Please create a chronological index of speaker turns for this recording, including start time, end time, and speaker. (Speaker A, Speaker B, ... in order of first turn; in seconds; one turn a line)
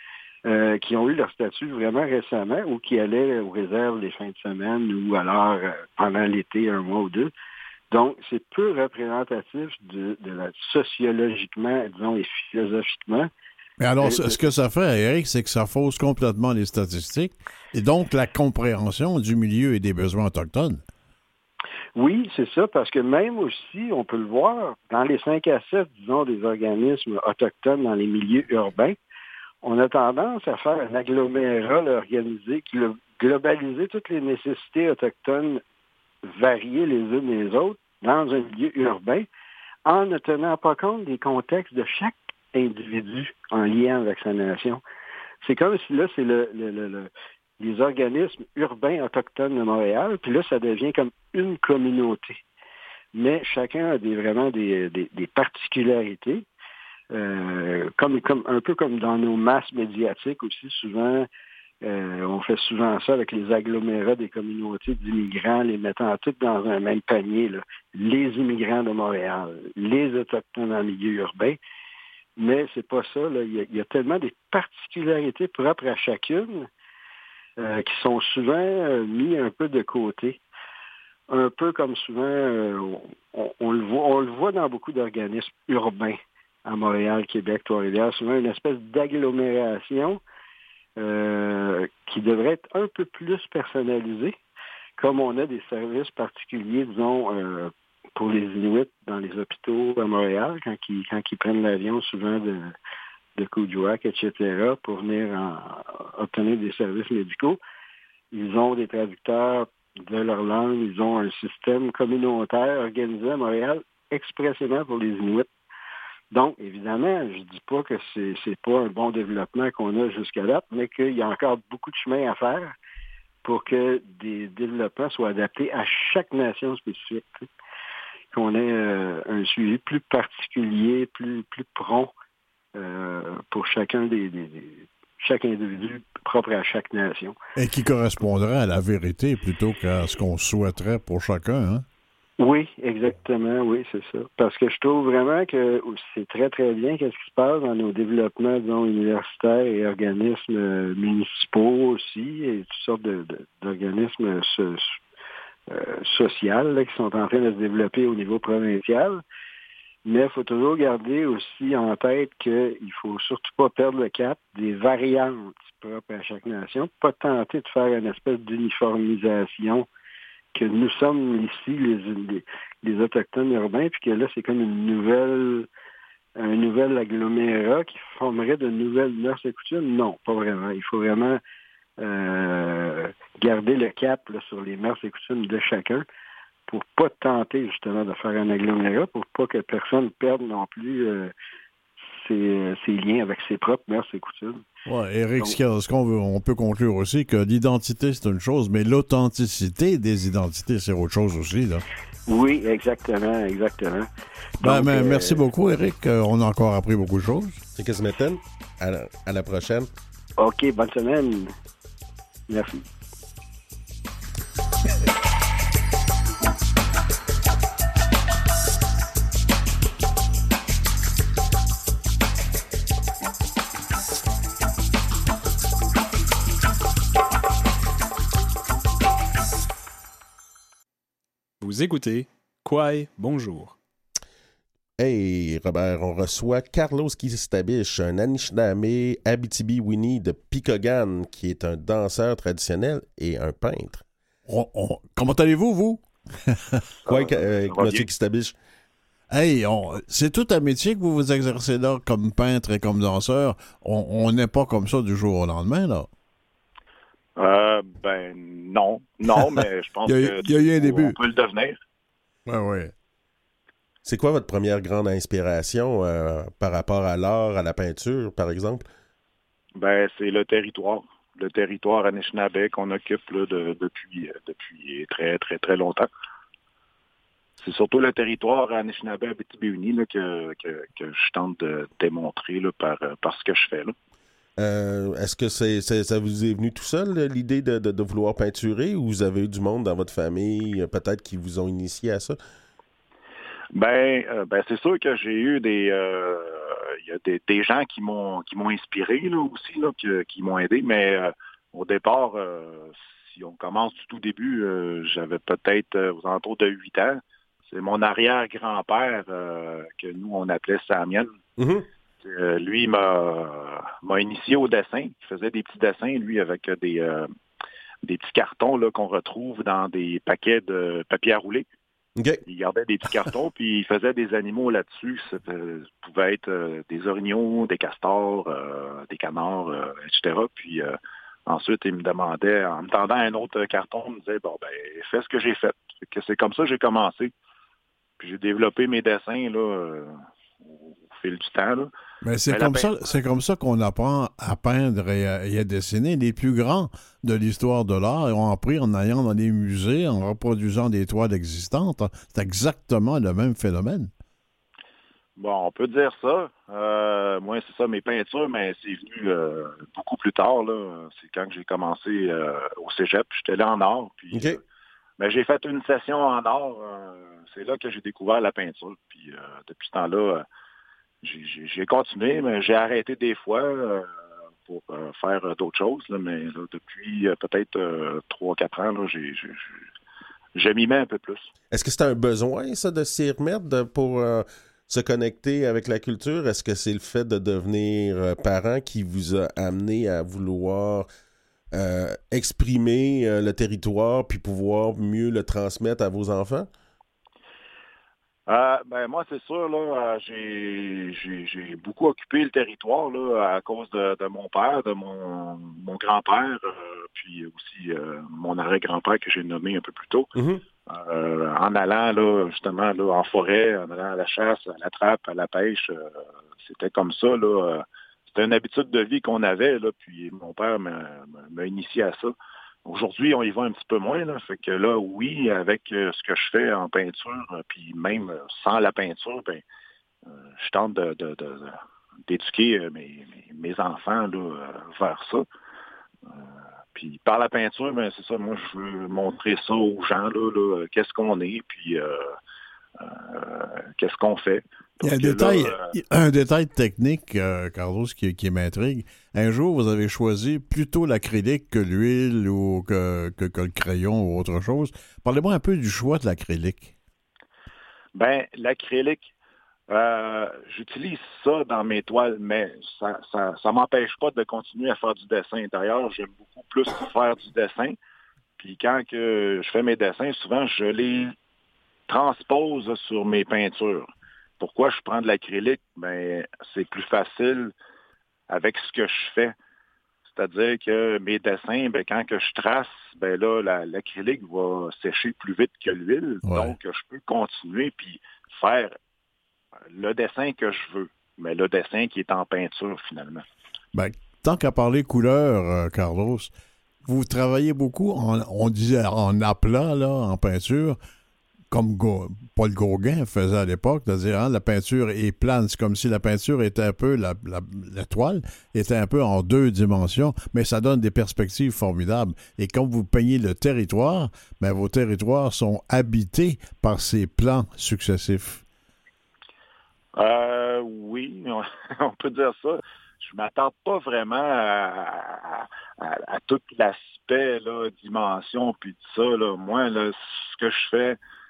Speaker A: 0.4-7.3
Speaker A: 7.9-13.3
Speaker B: 13.8-20.8
Speaker A: 14.0-14.3
Speaker A: 21.9-28.9
Speaker A: 29.6-35.6
Speaker A: 36.2-39.3
Speaker A: 39.8-44.8
Speaker A: 45.4-52.4
Speaker A: 53.1-56.5
Speaker A: 57.1-61.3
Speaker A: 61.8-71.6
Speaker A: 72.4-76.7
Speaker A: 77.6-80.4
Speaker A: 81.3-90.2
Speaker A: 91.0-94.3
Speaker A: 95.0-102.7
Speaker A: 103.3-107.6
Speaker A: 108.3-115.5
Speaker A: 116.3-122.7
Speaker A: 123.4-127.5
Speaker A: 128.3-132.1
Speaker A: 132.7-137.3
Speaker B: 137.6-141.8
Speaker A: 142.4-154.9
Speaker A: 155.7-159.2
Speaker A: 160.0-169.9
Speaker A: 170.5-175.7
Speaker A: 176.4-181.4
Speaker A: 182.0-186.0
Speaker A: 186.7-191.3
Speaker A: 192.1-194.6
Speaker B: 194.8-201.8
Speaker A: 202.3-204.1
Speaker A: 204.6-205.4
Speaker B: 204.6-207.6
Speaker C: 207.8-209.9
Speaker A: 210.4-211.5
Speaker A: 212.5-212.8
Speaker D: 231.6-233.8
Speaker C: 235.0-244.0
Speaker B: 244.4-246.8
Speaker E: 247.0-248.1
Speaker C: 247.1-248.5
Speaker B: 249.3-256.1
Speaker E: 257.4-261.8
Speaker B: 259.3-261.2
Speaker B: 262.4-262.9
Speaker C: 264.0-268.8
Speaker E: 269.8-276.1
Speaker E: 277.6-283.9
Speaker C: 284.6-292.4
Speaker E: 293.7-311.3
Speaker C: 311.6-311.9
Speaker E: 312.2-317.3
Speaker E: 318.0-321.6
Speaker C: 322.2-322.4
Speaker E: 322.4-337.3
Speaker E: 338.2-341.9
Speaker B: 342.2-354.1
Speaker E: 342.5-342.9
Speaker E: 355.4-364.6
Speaker C: 364.3-364.6
Speaker E: 365.2-370.4
Speaker E: 371.2-374.1
Speaker E: 374.6-379.8
Speaker E: 380.5-381.5
Speaker C: 381.7-391.1
Speaker C: 391.7-396.7
Speaker E: 398.5-410.3
Speaker C: 410.3-410.6
Speaker E: 410.9-422.3
Speaker E: 422.8-429.6
Speaker E: 430.3-435.4
Speaker E: 436.3-442.4
Speaker E: 443.0-445.9
Speaker B: 445.0-456.9
Speaker E: 458.1-459.3
Speaker E: 459.9-467.9
Speaker E: 468.6-471.3
Speaker E: 472.1-477.7
Speaker E: 478.5-479.6
Speaker E: 480.3-489.0
Speaker B: 486.4-486.7
Speaker E: 489.9-493.4
Speaker B: 493.9-496.5
Speaker B: 497.0-501.0
Speaker B: 501.7-518.6
Speaker E: 520.1-531.2